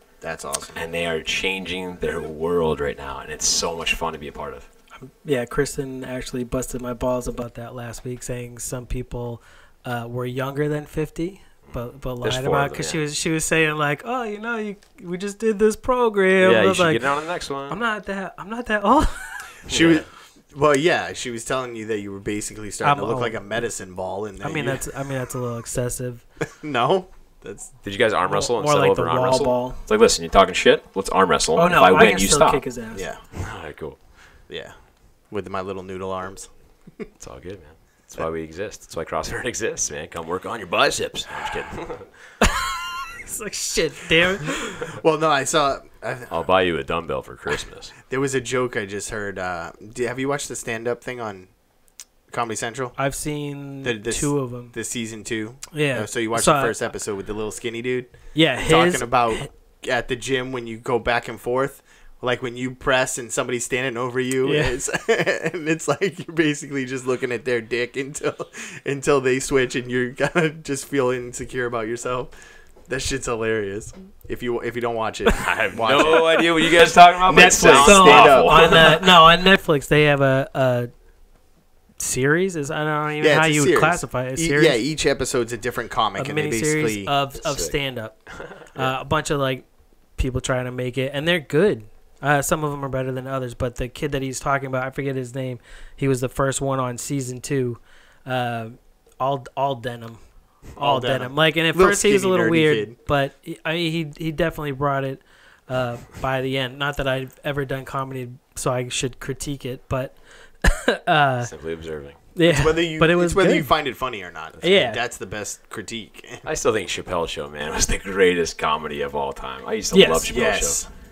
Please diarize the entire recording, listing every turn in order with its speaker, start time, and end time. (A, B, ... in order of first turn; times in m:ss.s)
0:00.2-0:00.8 A
0:00.8-0:04.7 B
0:05.0-0:19.6 C
0:11.7-0:13.0 B
0:16.4-0:17.8 B
0:19.7-0:24.8 A
0:19.7-0:20.1 B
0:22.8-0:23.4 C
0:24.4-0:26.2 C
0:26.6-0:27.7 A
0:27.8-0:32.6 B
0:28.2-0:29.8 C
0:31.6-0:33.1 C
0:32.9-0:33.2 A
0:33.4-0:34.0 B
0:34.5-0:34.7 A
0:35.3-0:37.1 A
0:37.2-0:42.1 B
0:42.4-0:44.9 C
0:44.9-0:46.3 A
0:46.3-0:47.9 B
0:48.1-0:51.5 A
0:52.3-0:53.0 A
0:53.0-0:54.7 C
0:53.8-1:12.3 A
0:55.7-0:56.8 C
0:58.3-0:59.5 C
1:04.4-1:04.8 C
1:12.9-1:18.9 A
1:15.4-1:19.2 B
1:17.7-1:20.9 C
1:22.0-1:24.8 C
1:23.2-1:27.1 A
1:26.2-1:29.6 C
1:27.4-1:27.8 B
1:30.2-1:51.5 C
1:40.8-1:43.0 A
1:51.4-1:52.2 B
1:52.3-1:53.7 C
1:52.4-1:56.5 A
1:54.6-1:55.0 C
1:56.4-2:00.8 B
1:59.9-2:00.3 C
2:00.3-2:00.9 A